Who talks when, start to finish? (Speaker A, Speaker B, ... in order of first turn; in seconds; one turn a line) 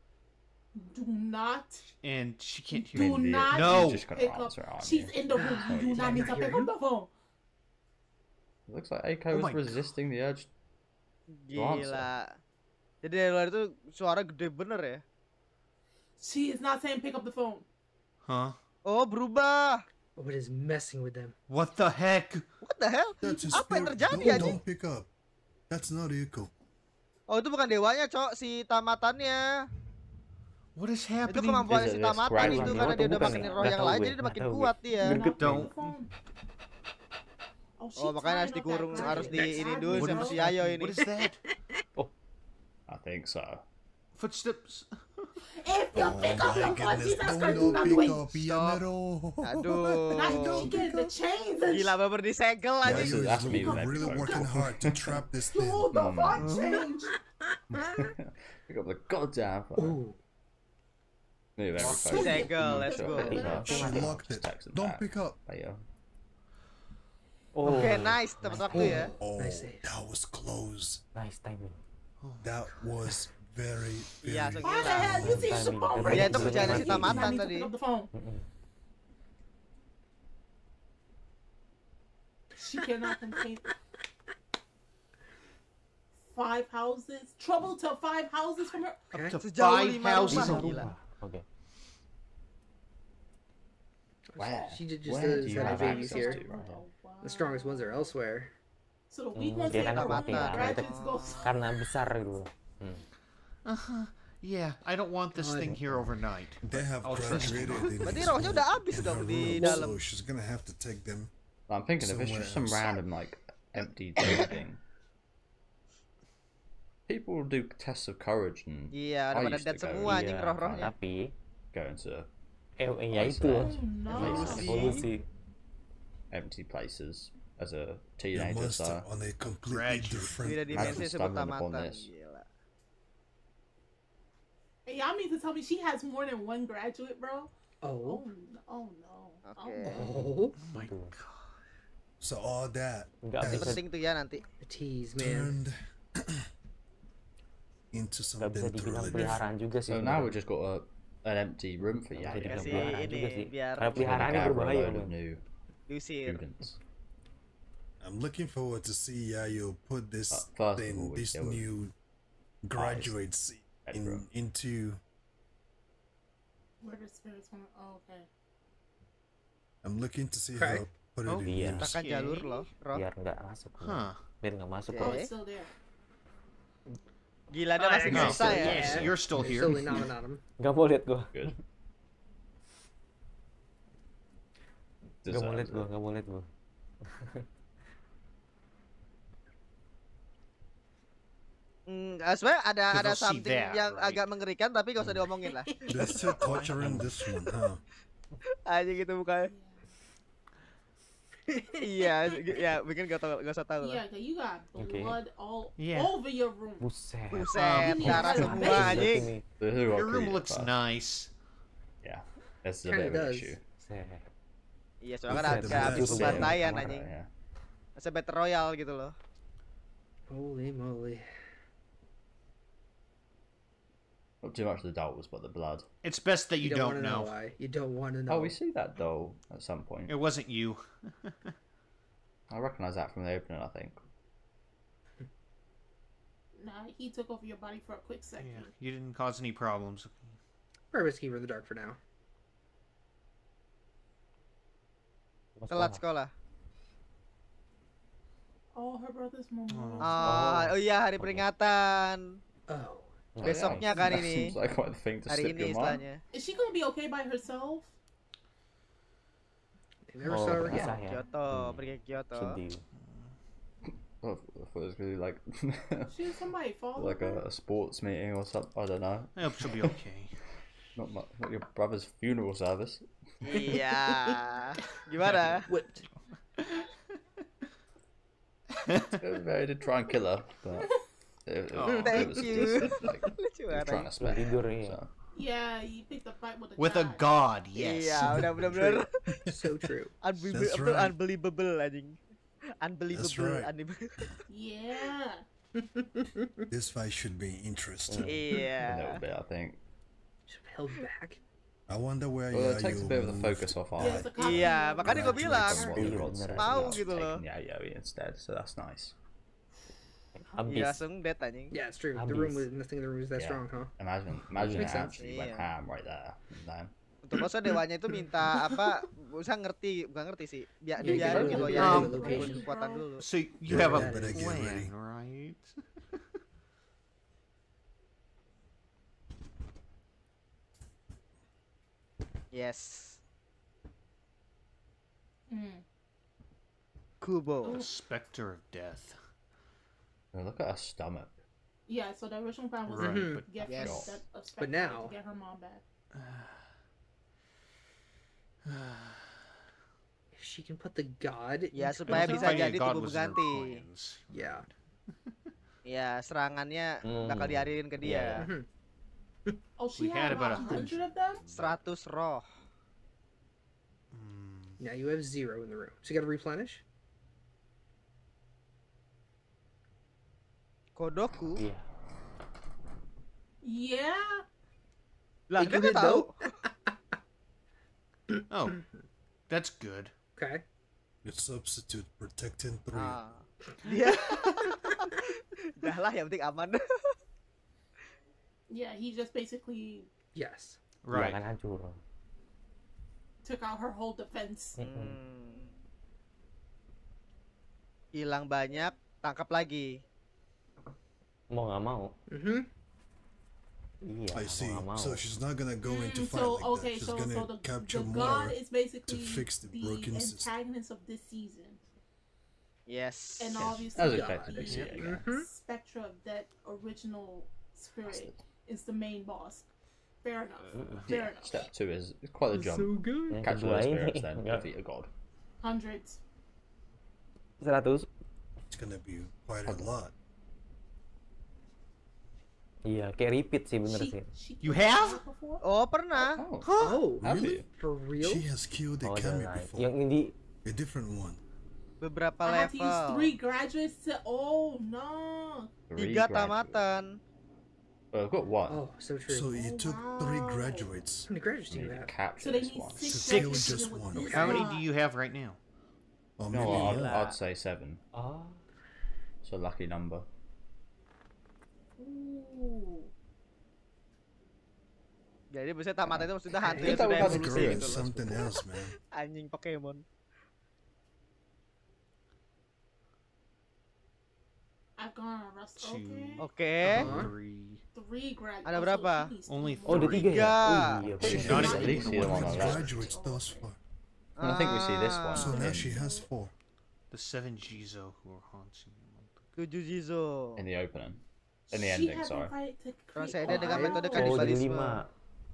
Speaker A: 0.8-1.9
Speaker B: 2.0-4.1
Speaker A: 2.7-7.1
Speaker C: 2.9-6.4
Speaker D: 5.4-6.7
Speaker C: 8.7-10.5
Speaker B: 9.3-9.8
Speaker E: 11.3-12.4
Speaker C: 11.6-12.1
Speaker E: 13.0-15.0
Speaker A: 16.2-17.6
Speaker B: 18.2-18.6
Speaker E: 18.9-19.9
Speaker D: 20.2-21.4
Speaker B: 21.5-22.4
Speaker E: 22.6-24.6
Speaker F: 23.2-25.1
Speaker A: 23.2-24.0
Speaker F: 25.7-26.5
Speaker E: 27.3-29.7
Speaker B: 30.8-31.9
Speaker E: 31.3-35.3
Speaker C: 31.6-33.5
Speaker G: 32.4-35.7
Speaker A: 35.0-36.1
Speaker B: 35.4-36.0
Speaker A: 37.8-40.5
Speaker E: 38.0-41.0
Speaker D: 38.9-39.7
Speaker B: 39.9-41.4
Speaker D: 41.0-41.6
Speaker C: 42.9-43.6
Speaker B: 44.2-45.4
Speaker A: 45.5-48.3
Speaker F: 45.9-50.8
Speaker B: 46.0-48.8
Speaker E: 49.5-50.8
Speaker A: 50.1-52.0
Speaker D: 50.6-51.1
Speaker E: 51.7-53.5
Speaker C: 52.8-55.2
Speaker F: 52.8-55.9
Speaker A: 53.4-54.5
Speaker A: 55.4-57.2
Speaker C: 55.9-56.5
Speaker B: 56.4-56.9
Speaker D: 56.7-57.2
Speaker C: 57.7-60.0
Speaker D: 57.7-58.1
Speaker D: 59.8-60.2
Speaker C: 61.6-65.8
Speaker B: 61.8-62.9
Speaker A: 62.0-64.1
Speaker E: 62.1-63.6
Speaker G: 63.4-64.2
Speaker F: 63.7-65.4
Speaker G: 67.5-69.2
Speaker E: 67.6-69.1
Speaker D: 67.7-68.0
Speaker D: 68.7-69.8
Speaker F: 69.2-71.0
Speaker G: 71.2-71.8
Speaker B: 72.2-72.6
Speaker F: 72.4-75.6
Speaker E: 74.2-75.5
Speaker A: 74.6-78.1
Speaker G: 75.1-77.4
Speaker E: 76.1-77.7
Speaker F: 76.3-77.0
Speaker G: 78.1-78.5
Speaker A: 82.6-83.7
Speaker D: 82.8-83.7
Speaker A: 86.3-89.1
Speaker B: 89.1-90.9
Speaker D: 89.1-89.4
Speaker E: 89.4-90.9
Speaker G: 90.2-91.5
Speaker D: 94.4-96.4
Speaker C: 94.4-96.8
Speaker A: 95.3-98.2
Speaker D: 97.2-98.5
Speaker A: 99.1-101.6
Speaker G: 99.3-103.1
Speaker E: 99.7-101.5
Speaker B: 103.7-108.4
Speaker D: 105.3-106.1
Speaker F: 106.6-111.3
Speaker E: 108.0-110.0
Speaker C: 111.7-114.8
Speaker F: 112.0-113.0
Speaker C: 117.1-120.9
Speaker E: 118.9-120.9
Speaker G: 120.0-121.3
Speaker C: 121.7-122.3
Speaker G: 122.8-125.3
Speaker C: 123.1-124.8
Speaker A: 123.6-125.1
Speaker E: 124.2-125.0
Speaker F: 124.2-124.6
Speaker C: 126.3-129.1
Speaker F: 128.3-131.1
Speaker B: 129.7-130.5
Speaker E: 130.4-132.5
Speaker C: 130.7-132.1
Speaker A: 134.9-137.5
Speaker D: 137.8-138.3
Speaker A: 138.0-140.2
Speaker E: 139.5-140.1
Speaker D: 139.8-140.6
Speaker B: 140.6-141.6
Speaker G: 140.7-141.2
Speaker F: 142.2-143.8
Speaker G: 143.2-143.8
Speaker E: 143.4-144.5
Speaker D: 144.6-145.6
Speaker F: 145.2-146.5
Speaker F: 147.9-149.4
Speaker G: 148.4-150.4
Speaker C: 149.9-153.0
Speaker G: 152.2-155.2
Speaker E: 152.4-154.6
Speaker C: 154.0-155.4
Speaker E: 155.9-156.4
Speaker C: 156.2-156.8
Speaker F: 158.0-161.9
Speaker C: 160.3-161.7
Speaker F: 162.6-165.0
Speaker C: 162.7-163.2
Speaker C: 163.8-164.2
Speaker A: 166.8-168.3
Speaker F: 169.8-172.0
Speaker D: 170.6-170.9
Speaker B: 171.3-172.7
Speaker G: 171.4-171.9
Speaker E: 171.8-173.0
Speaker G: 172.9-175.2
Speaker B: 173.8-174.2
Speaker E: 174.9-175.3
Speaker A: 175.0-175.7
Speaker E: 177.5-179.1
Speaker D: 177.8-180.4
Speaker B: 178.1-180.1
Speaker C: 178.8-179.1
Speaker G: 180.6-181.6
Speaker C: 185.2-185.9
Speaker G: 185.2-186.5
Speaker G: 187.1-187.5
Speaker E: 191.9-196.2
Speaker B: 192.9-194.2
Speaker D: 195.4-196.4
Speaker F: 195.9-197.8
Speaker B: 196.2-197.1
Speaker G: 196.8-197.1
Speaker E: 198.7-199.5
Speaker A: 199.5-199.8
Speaker D: 201.5-202.5
Speaker E: 201.8-204.0
Speaker A: 203.8-206.8
Speaker G: 204.8-205.2
Speaker B: 205.8-206.2
Speaker G: 206.8-209.4
Speaker E: 207.3-209.3
Speaker B: 207.5-208.4
Speaker A: 207.8-209.2
Speaker C: 209.6-210.8
Speaker B: 209.9-211.3
Speaker C: 212.0-213.6
Speaker D: 212.8-213.6
Speaker G: 213.8-214.3
Speaker E: 215.0-217.1
Speaker F: 215.3-216.6
Speaker G: 215.3-216.9
Speaker C: 215.7-217.3
Speaker E: 218.0-219.2
Speaker D: 220.3-221.2
Speaker C: 224.4-225.9
Speaker B: 226.0-227.4
Speaker D: 226.6-228.6
Speaker C: 228.3-230.2
Speaker B: 230.1-231.5
Speaker C: 232.5-234.0
Speaker A: 236.6-238.7
Speaker B: 238.4-240.4
Speaker D: 240.9-242.0
Speaker G: 245.6-246.0
Speaker E: 245.7-246.3
Speaker A: 248.7-250.7
Speaker B: 249.7-250.3
Speaker E: 250.0-252.4
Speaker G: 250.2-251.5
Speaker D: 252.7-253.3
Speaker G: 253.3-253.9
Speaker C: 253.4-256.1
Speaker E: 253.4-254.6
Speaker E: 255.3-256.2
Speaker A: 256.3-257.9
Speaker D: 260.1-261.0
Speaker G: 260.2-262.9
Speaker E: 260.7-262.6
Speaker C: 264.2-266.2
Speaker A: 266.1-267.4
Speaker C: 267.0-270.0
Speaker B: 269.4-270.4
Speaker C: 270.9-273.8
Speaker E: 273.4-275.7
Speaker D: 274.1-274.4
Speaker B: 274.9-275.6
Speaker D: 275.7-276.1
Speaker B: 276.6-276.9
Speaker B: 278.7-279.2
Speaker C: 279.2-280.9
Speaker C: 281.5-285.1
Speaker B: 281.7-282.3
Speaker E: 282.0-284.1
Speaker D: 282.1-283.3
Speaker G: 284.2-285.0
Speaker A: 285.4-287.3
Speaker B: 286.8-288.6
Speaker E: 287.8-289.1
Speaker F: 288.3-289.6
Speaker D: 289.5-290.1
Speaker E: 290.2-292.2
Speaker F: 290.4-291.2
Speaker E: 292.8-294.3
Speaker F: 293.1-293.7
Speaker A: 294.5-295.4
Speaker D: 295.8-296.6
Speaker F: 296.7-298.4
Speaker G: 298.1-298.4
Speaker E: 298.2-299.2
Speaker C: 298.8-299.8
Speaker D: 300.5-301.4
Speaker F: 301.9-306.3
Speaker C: 302.5-309.2
Speaker A: 304.0-306.0
Speaker E: 304.4-306.0
Speaker G: 305.9-307.1
Speaker E: 306.6-307.4
Speaker G: 310.4-311.0
Speaker E: 310.7-311.7
Speaker D: 311.7-313.9
Speaker G: 312.1-312.7
Speaker C: 313.4-316.9
Speaker G: 314.6-315.0
Speaker D: 314.7-315.2
Speaker E: 315.2-315.7
Speaker E: 317.2-323.2
Speaker D: 321.0-322.7
Speaker C: 321.1-322.1
Speaker A: 321.4-323.1
Speaker B: 321.7-322.2
Speaker B: 323.2-326.2
Speaker F: 323.7-324.9
Speaker D: 323.7-324.6
Speaker E: 332.5-333.2
Speaker A: 335.5-335.8
Speaker E: 337.2-337.8
Speaker A: 337.6-337.9
Speaker B: 337.7-339.2
Speaker C: 340.3-341.4
Speaker A: 341.9-345.8
Speaker B: 342.9-343.9
Speaker D: 343.0-343.5
Speaker E: 343.6-344.1
Speaker C: 343.7-344.2
Speaker D: 344.6-345.2
Speaker B: 346.1-346.7
Speaker B: 348.6-349.4
Speaker D: 350.4-352.7
Speaker E: 351.7-353.8
Speaker B: 352.1-355.5
Speaker D: 354.3-354.7
Speaker E: 355.9-358.5
Speaker G: 357.0-358.5
Speaker D: 358.4-358.7
Speaker A: 359.8-361.4
Speaker B: 360.0-361.8
Speaker D: 360.4-361.0
Speaker E: 361.5-362.5
Speaker B: 364.1-364.8
Speaker D: 364.8-366.8
Speaker E: 371.0-371.6
Speaker G: 371.6-371.9
Speaker A: 373.6-374.4
Speaker E: 375.5-376.3
Speaker D: 375.6-376.3
Speaker D: 378.3-378.9
Speaker B: 378.5-378.8
Speaker B: 379.5-380.1
Speaker D: 380.4-380.6
Speaker F: 381.2-383.2
Speaker E: 382.9-387.1
Speaker B: 383.9-384.7
Speaker A: 388.7-390.1
Speaker D: 390.3-390.8
Speaker B: 391.0-391.4
Speaker G: 391.1-392.0
Speaker A: 393.4-394.8
Speaker G: 394.8-395.2
Speaker E: 394.8-395.7
Speaker E: 398.1-400.0
Speaker G: 401.5-402.1
Speaker D: 402.3-402.7
Speaker G: 404.0-405.2
Speaker F: 404.3-410.6
Speaker A: 405.8-411.8
Speaker E: 412.9-413.7
Speaker A: 413.4-419.7
Speaker C: 413.6-415.3
Speaker D: 413.9-415.5
Speaker B: 414.6-414.9
Speaker C: 418.1-418.4
Speaker A: 420.2-421.7
Speaker B: 420.6-421.1
Speaker C: 421.1-425.1
Speaker D: 422.5-423.4
Speaker G: 423.3-424.7
Speaker A: 425.6-426.2
Speaker G: 427.6-428.1
Speaker F: 428.7-430.1
Speaker C: 429.6-429.9
Speaker G: 432.9-434.3
Speaker A: 433.9-435.6
Speaker B: 434.6-435.3
Speaker E: 435.6-436.4
Speaker C: 436.2-437.7
Speaker B: 436.6-437.1
Speaker D: 436.8-438.5
Speaker F: 437.2-437.6
Speaker F: 438.2-439.9
Speaker G: 439.0-440.4
Speaker F: 440.6-441.4
Speaker E: 442.0-443.3
Speaker A: 442.4-445.7
Speaker C: 445.9-446.9
Speaker E: 446.0-447.2
Speaker C: 448.1-448.8
Speaker D: 448.7-449.7
Speaker F: 449.3-451.3
Speaker A: 449.6-450.9
Speaker D: 451.3-452.1
Speaker C: 451.7-453.3
Speaker A: 452.4-454.9
Speaker F: 453.1-454.4
Speaker B: 453.3-455.6
Speaker D: 454.2-454.7
Speaker F: 456.4-457.2
Speaker C: 456.5-458.0
Speaker E: 456.7-457.4
Speaker G: 458.1-458.6
Speaker C: 459.4-460.3
Speaker A: 462.0-463.1
Speaker E: 465.5-470.1
Speaker C: 466.0-468.4
Speaker D: 466.6-467.1
Speaker F: 467.0-468.9
Speaker A: 475.0-476.4
Speaker B: 475.8-477.8
Speaker E: 476.4-477.2
Speaker D: 476.9-477.4
Speaker A: 477.9-483.7
Speaker E: 478.6-479.4
Speaker B: 479.5-482.9
Speaker G: 479.9-481.9
Speaker E: 480.3-481.1
Speaker C: 481.2-483.0
Speaker F: 481.2-483.8
Speaker E: 484.4-485.6
Speaker C: 484.4-486.0
Speaker F: 485.3-486.5
Speaker A: 485.4-486.3
Speaker B: 487.1-489.4
Speaker E: 489.6-490.6
Speaker C: 490.6-492.5
Speaker A: 491.7-494.5
Speaker E: 493.1-495.0
Speaker D: 493.4-494.5
Speaker G: 494.1-495.1